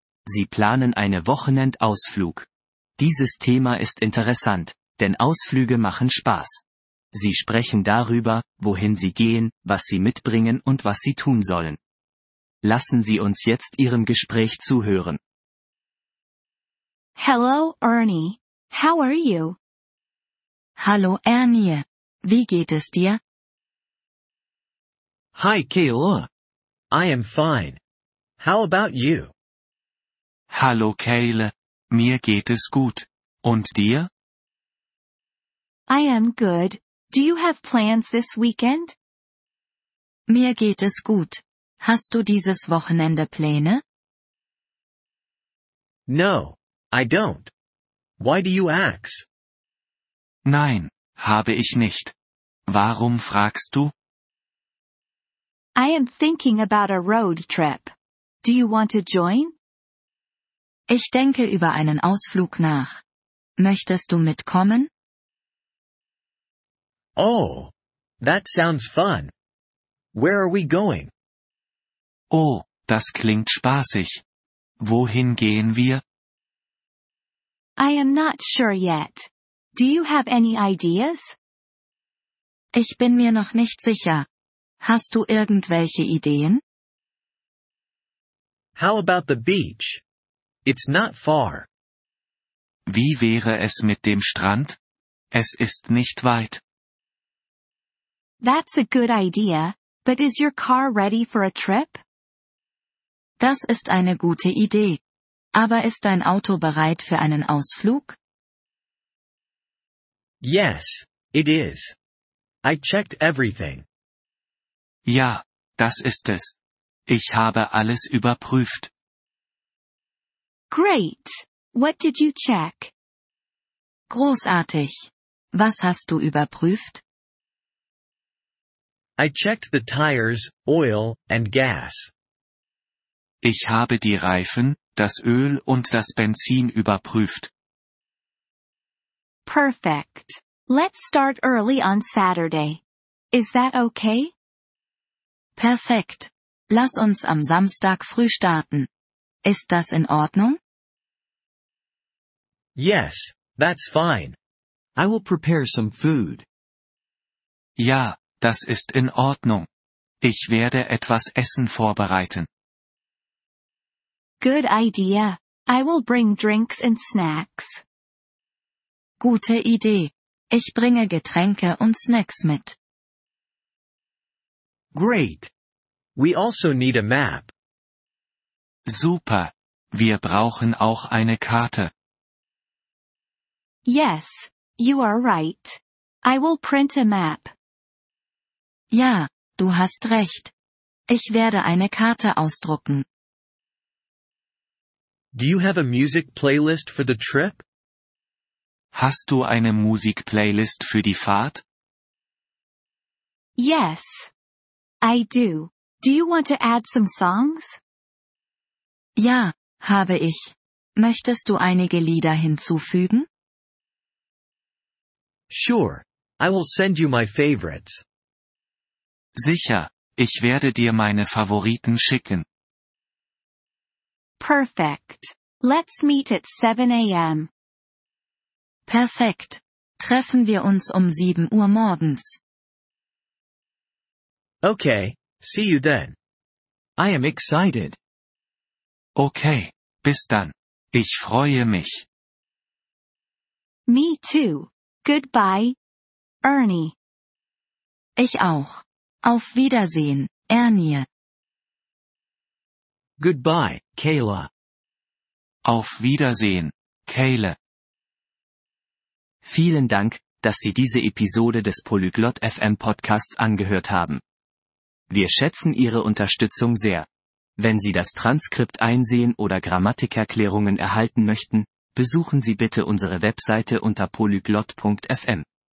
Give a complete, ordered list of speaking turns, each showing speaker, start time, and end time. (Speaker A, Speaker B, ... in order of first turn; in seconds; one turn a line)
Speaker A: 0.3-2.5
Speaker A: 3.0-6.6
Speaker A: 7.1-11.8
Speaker A: 12.6-15.2
Speaker B: 17.2-19.6
Speaker C: 20.8-23.2
Speaker D: 25.4-26.3
Speaker D: 26.9-27.8
Speaker D: 28.4-29.3
Speaker E: 30.5-34.1
Speaker B: 35.9-39.0
Speaker C: 40.3-43.8
Speaker D: 46.1-47.5
Speaker D: 48.2-49.3
Speaker E: 50.5-52.1
Speaker E: 52.7-53.9
Speaker B: 55.8-57.9
Speaker B: 58.4-59.5
Speaker C: 60.9-63.0
Speaker C: 63.6-64.9
Speaker D: 67.2-69.3
Speaker D: 70.1-71.1
Speaker E: 72.3-74.2
Speaker E: 74.8-76.0
Speaker B: 77.8-81.3
Speaker C: 82.8-84.3
Speaker C: 84.8-86.6
Speaker D: 88.8-90.0
Speaker D: 90.7-91.7
Speaker E: 92.9-94.8
Speaker E: 95.3-96.6
Speaker B: 98.4-102.0
Speaker C: 103.4-105.0
Speaker C: 105.6-108.2
Speaker D: 110.4-112.0
Speaker D: 112.6-113.9
Speaker E: 115.1-116.5
Speaker E: 117.1-118.9
Speaker B: 120.7-122.9
Speaker C: 124.1-127.0
Speaker D: 129.2-132.1
Speaker E: 133.4-137.5
Speaker B: 139.5-142.8
Speaker B: 143.3-144.3
Speaker C: 145.6-148.9
Speaker C: 149.4-150.6
Speaker D: 152.8-154.4
Speaker D: 155.0-156.5
Speaker E: 157.8-159.7
Speaker E: 160.2-162.5
Speaker B: 164.4-167.8
Speaker C: 169.2-172.8
Speaker D: 174.9-175.5
Speaker D: 176.2-177.5
Speaker E: 178.9-181.9
Speaker B: 183.9-187.5
Speaker C: 188.9-190.5
Speaker C: 191.1-193.1
Speaker D: 195.3-197.6
Speaker E: 198.9-201.6
Speaker B: 203.6-204.3
Speaker B: 205.0-207.8
Speaker C: 209.2-213.3
Speaker D: 215.5-218.0
Speaker E: 219.4-222.4
Speaker B: 224.4-227.5
Speaker C: 228.9-232.4
Speaker D: 234.6-236.2
Speaker D: 237.0-238.0
Speaker E: 239.2-242.1
Speaker B: 243.9-245.8
Speaker B: 246.4-246.9
Speaker C: 248.2-251.1
Speaker D: 253.2-254.5
Speaker E: 255.7-257.6
Speaker A: 259.4-264.2
Speaker A: 265.1-267.1
Speaker A: 267.6-275.4